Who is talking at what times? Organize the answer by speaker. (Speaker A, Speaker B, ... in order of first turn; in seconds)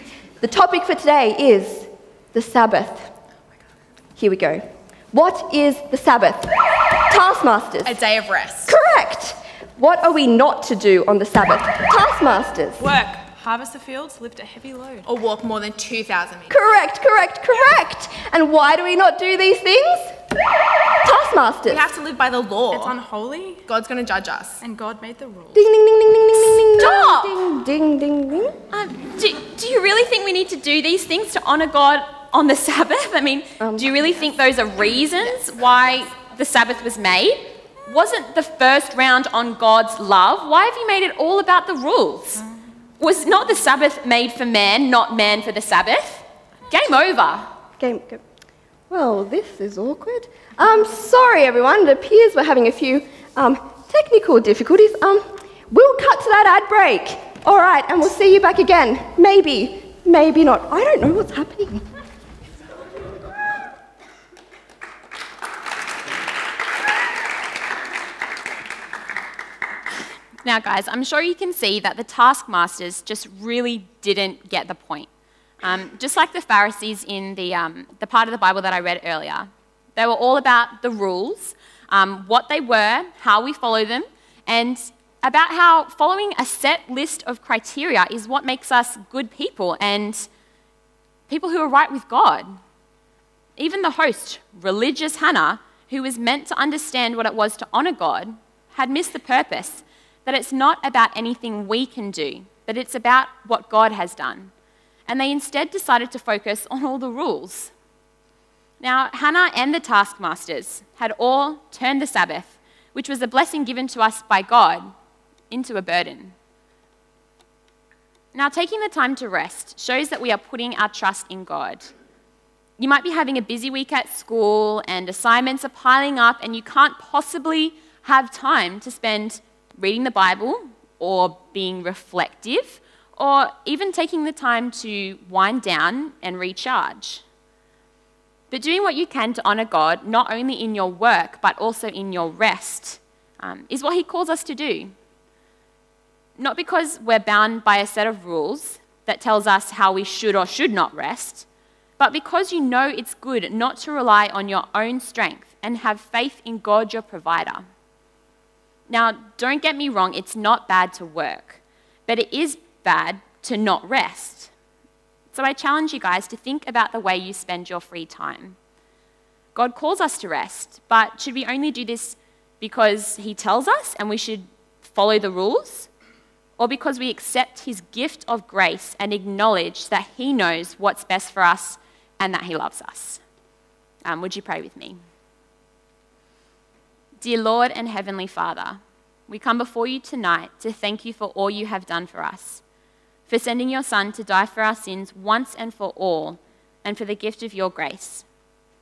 Speaker A: 0.4-3.1, 4.2-6.5, 7.1-8.0, 8.7-13.0, 16.5-20.1, 21.0-21.8, 25.6-28.6, 33.6-33.9, 47.8-48.2, 48.9-61.8
Speaker B: 7.8-8.7, 12.9-13.4, 15.0-16.6, 21.7-23.0, 23.7-25.3
Speaker C: 13.4-15.1, 22.7-23.7, 24.6-25.6
Speaker D: 26.8-27.4, 28.7-42.5, 43.0-47.5, 70.4-75.1, 75.6-90.3, 91.3-92.5, 93.6-104.5, 105.1-107.7, 108.8-114.9, 115.5-116.3, 118.3-121.9, 122.8-137.2, 138.5-144.9, 146.4-151.5, 152.0-157.6, 158.9-164.5, 165.3-168.6, 169.6-175.9, 176.6-183.2, 184.1-185.0, 187.2-192.6, 193.3-198.3